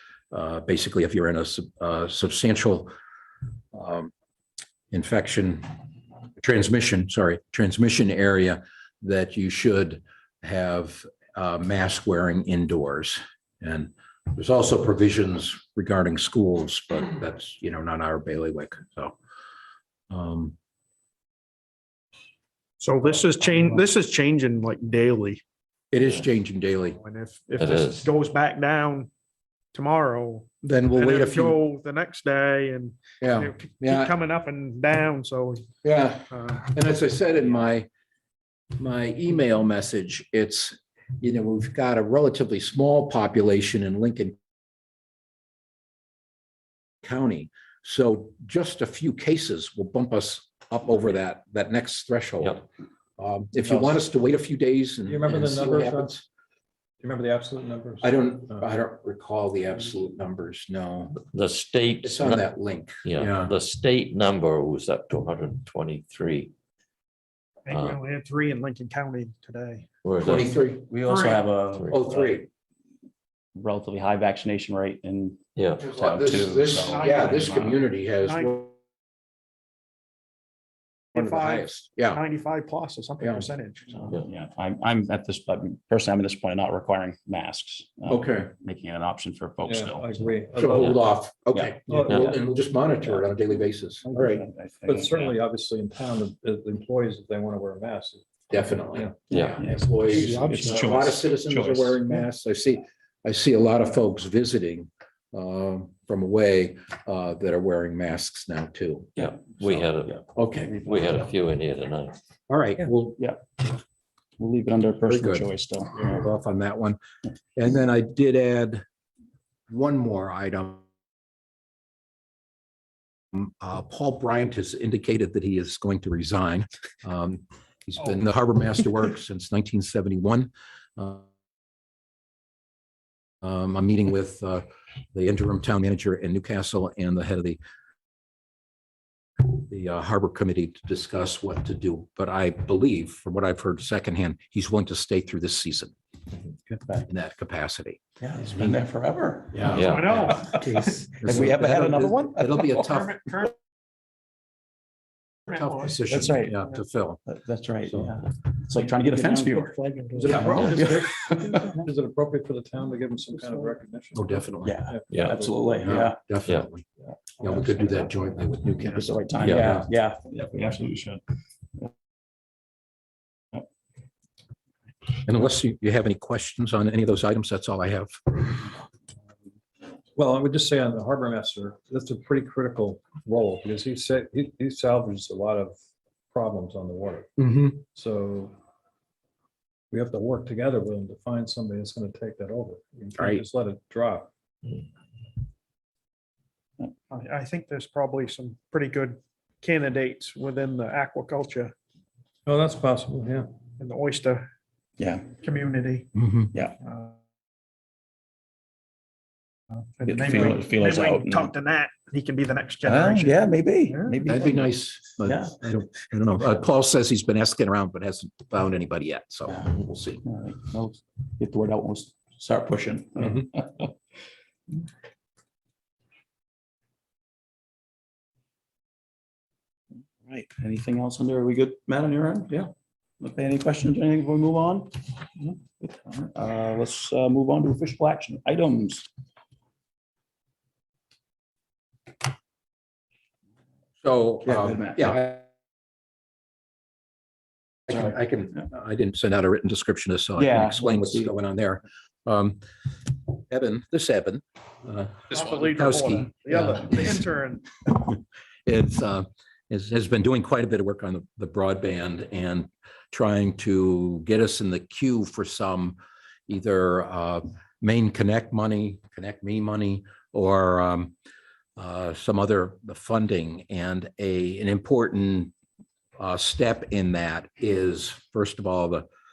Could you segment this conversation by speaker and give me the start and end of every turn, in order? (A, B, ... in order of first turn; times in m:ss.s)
0:00.3-0:02.9 A
0:03.7-0:04.1 A
0:04.9-0:05.6 A
0:06.4-0:19.1 A
0:20.1-0:20.6 A
0:22.8-0:25.4 B
0:25.9-0:27.0 A
0:26.9-0:29.1 B
0:27.6-0:28.0 C
0:29.7-0:35.7 B
0:30.6-0:31.6 A
0:33.2-0:34.1 A
0:35.8-0:37.9 A
0:36.3-0:36.7 B
0:38.8-0:44.4 A
0:47.0-0:52.6 A
0:53.2-0:56.2 A
0:53.6-0:54.0 D
0:55.0-0:56.2 D
0:57.0-0:58.6 D
0:58.0-1:01.2 A
1:01.3-1:02.4 C
1:02.0-1:03.5 A
1:03.0-1:06.5 C
1:07.6-1:09.8 B
1:07.7-1:08.0 C
1:10.0-1:10.5 C
1:10.2-1:10.9 A
1:10.9-1:12.4 E
1:11.9-1:12.5 A
1:13.5-1:17.8 E
1:15.6-1:15.9 C
1:15.8-1:18.7 A
1:16.6-1:18.7 B
1:21.1-1:22.2 A
1:21.1-1:24.2 B
1:23.2-1:23.5 A
1:24.0-1:31.0 E
1:28.1-1:28.5 A
1:29.6-1:30.9 D
1:30.5-1:34.4 A
1:31.5-1:31.9 E
1:31.9-1:32.3 D
1:34.1-1:38.3 D
1:34.2-1:35.4 E
1:38.5-1:49.3 A
1:38.8-1:39.2 D
1:39.6-1:41.9 E
1:40.2-1:41.0 B
1:49.2-1:50.2 C
1:49.4-1:51.3 E
1:50.3-1:50.8 A
1:50.8-1:52.1 C
1:52.5-1:53.2 A
1:54.4-1:56.2 E
1:55.1-1:57.0 A
1:57.6-1:58.8 A
1:59.7-2:00.8 A
2:03.3-2:11.2 A
2:13.4-2:17.6 A
2:19.4-2:25.9 A
2:27.0-2:28.8 A
2:28.2-2:33.0 E
2:29.5-2:33.5 A
2:29.7-2:30.4 C
2:29.8-2:31.2 B
2:32.9-2:33.5 B
2:35.5-2:37.2 A
2:36.1-2:36.6 E
2:37.3-2:41.9 E
2:37.9-2:38.2 A
2:39.0-2:40.5 B
2:40.2-2:41.0 A
2:40.3-2:46.0 D
2:44.1-2:44.8 A
2:44.6-2:46.2 E
2:45.1-2:45.4 C
2:45.8-2:46.8 A
2:47.4-2:49.9 A
2:48.9-2:51.2 E
2:49.4-2:49.8 C
2:55.2-2:58.7 A
3:00.2-3:05.8 D
3:06.3-3:07.3 D
3:07.4-3:07.8 A
3:07.9-3:08.5 D
3:09.9-3:14.3 D
3:13.2-3:13.4 A
3:17.1-3:21.7 B
3:22.4-3:23.5 D
3:23.8-3:24.4 B
3:25.0-3:25.3 E
3:25.4-3:26.1 B
3:26.1-3:26.5 A
3:26.9-3:27.1 B
3:30.0-3:34.3 B
3:30.0-3:31.5 E
3:32.8-3:35.6 E
3:34.2-3:40.2 A
3:39.5-3:43.9 E
3:50.2-3:52.7 E
3:53.2-3:54.9 E
3:55.8-3:59.0 E
4:04.0-4:05.4 A
4:04.4-4:05.2 E
4:07.9-4:12.6 A
4:10.4-4:11.3 E
4:13.3-4:17.2 A
4:15.3-4:17.7 B
4:17.8-4:31.1 A
4:31.8-4:35.5 A
4:36.2-4:39.0 A